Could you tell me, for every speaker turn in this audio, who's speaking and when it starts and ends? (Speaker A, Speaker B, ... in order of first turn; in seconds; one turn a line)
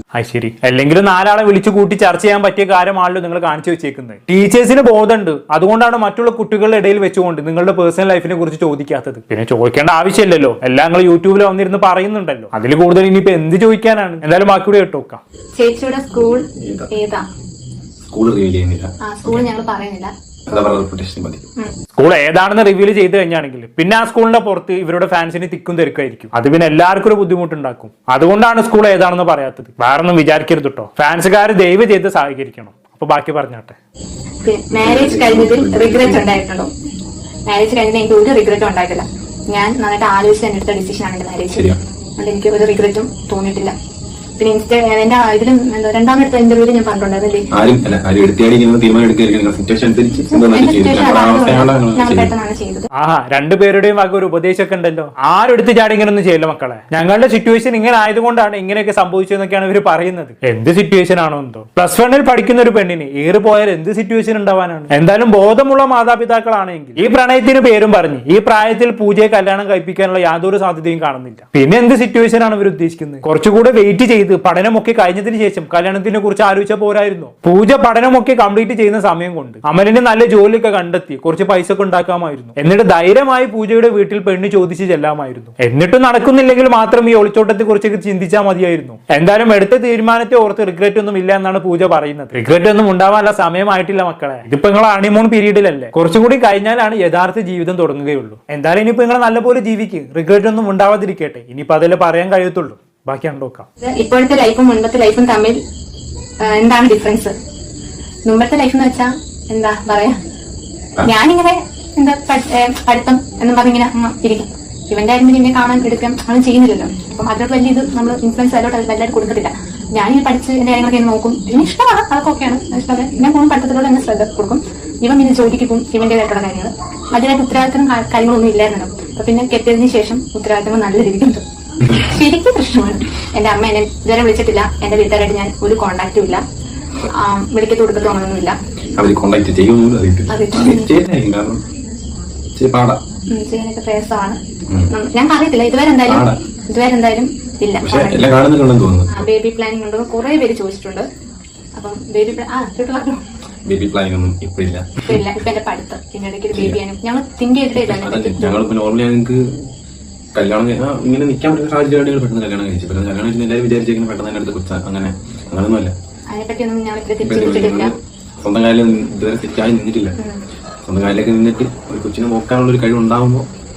Speaker A: 0.1-15.2
Speaker B: 15.6-17.2
Speaker C: 16.5-16.9
Speaker C: 18.1-19.5
Speaker B: 19.1-20.8
Speaker C: 20.5-21.4
Speaker A: 21.9-33.8
Speaker B: 34.4-36.7
Speaker C: 34.8-36.4
Speaker B: 37.5-43.7
Speaker C: 41.5-41.8
Speaker B: 44.4-47.5
Speaker C: 47.5-52.3
Speaker B: 50.3-52.9
Speaker A: 52.9-103.7
Speaker B: 103.8-105.6
Speaker B: 106.4-107.3
Speaker B: 108.3-110.2
Speaker B: 111.0-136.4
Speaker B: 137.1-138.6
Speaker C: 139.0-141.6
Speaker B: 140.3-140.9
Speaker C: 142.6-143.0
Speaker B: 143.3-144.4
Speaker B: 144.9-148.4
Speaker C: 146.1-146.4
Speaker C: 147.8-149.3
Speaker B: 149.1-151.1
Speaker B: 151.8-153.2
Speaker C: 153.7-155.2
Speaker B: 155.1-158.7
Speaker C: 156.5-156.8
Speaker C: 157.8-159.7
Speaker C: 160.3-165.9
Speaker B: 166.3-167.9
Speaker C: 167.2-170.2
Speaker C: 170.9-173.5